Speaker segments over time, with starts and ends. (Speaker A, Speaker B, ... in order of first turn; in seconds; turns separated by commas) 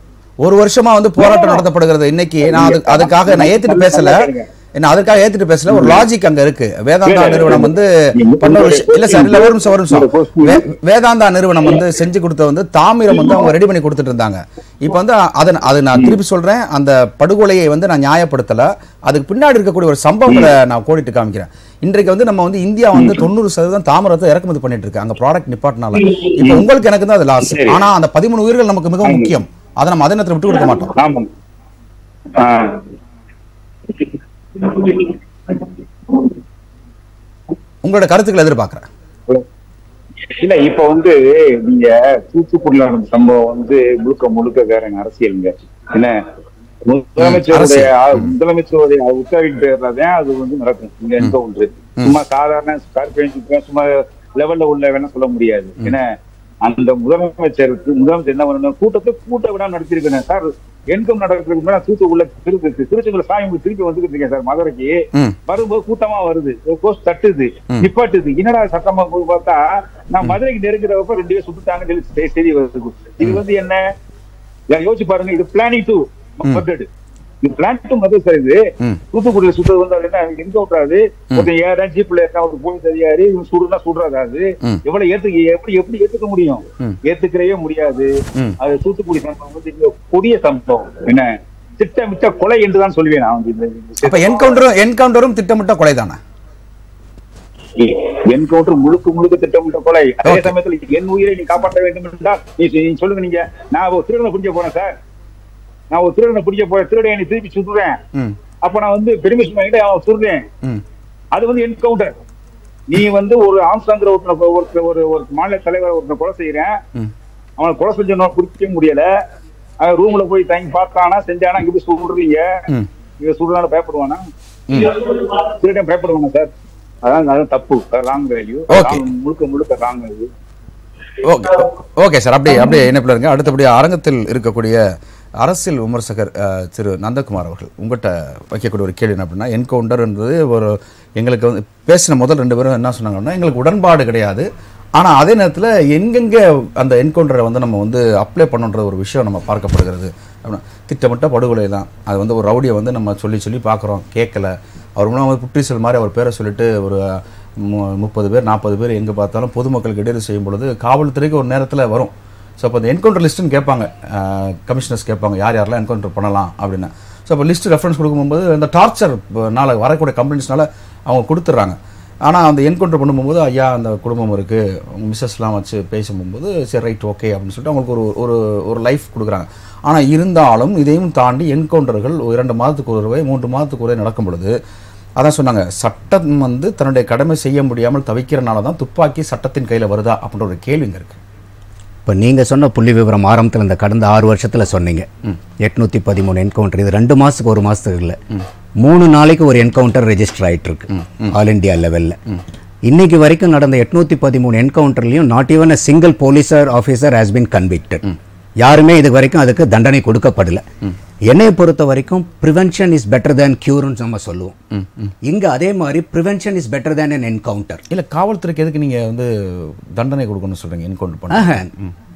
Speaker A: 0.4-4.2, Speaker B: 1.2-1.6, Speaker B: 2.5-4.5, Speaker A: 4.8-30.9, Speaker B: 5.7-6.0, Speaker B: 7.1-10.7, Speaker B: 22.9-23.2, Speaker B: 25.9-26.7, Speaker B: 27.4-27.8, Speaker B: 29.0-29.3, Speaker B: 30.6-31.3, Speaker B: 32.3-32.8, Speaker B: 33.9-36.3, Speaker A: 37.8-38.9, Speaker B: 40.3-46.2, Speaker B: 46.9-56.1, Speaker A: 47.2-48.3, Speaker B: 56.6-73.8, Speaker B: 74.7-76.9, Speaker B: 77.4-78.6, Speaker B: 79.1-88.1, Speaker B: 88.6-94.6, Speaker A: 94.0-96.2, Speaker B: 97.8-105.0, Speaker A: 100.2-100.5, Speaker B: 105.9-108.0, Speaker B: 108.6-110.5, Speaker B: 111.3-112.1, Speaker B: 112.9-116.8, Speaker B: 117.6-119.1, Speaker B: 119.8-122.7, Speaker B: 123.2-124.2, Speaker A: 124.7-125.0, Speaker B: 124.7-126.5, Speaker B: 127.0-130.3, Speaker A: 128.7-129.1, Speaker A: 131.2-134.8, Speaker A: 135.4-184.6, Speaker A: 185.2-191.2, Speaker C: 192.1-195.1, Speaker C: 195.6-198.2, Speaker C: 198.8-202.2, Speaker C: 202.9-208.1, Speaker C: 208.6-210.6, Speaker C: 211.3-214.6, Speaker A: 214.7-215.1, Speaker C: 215.2-217.8, Speaker A: 217.9-221.9, Speaker C: 221.3-221.7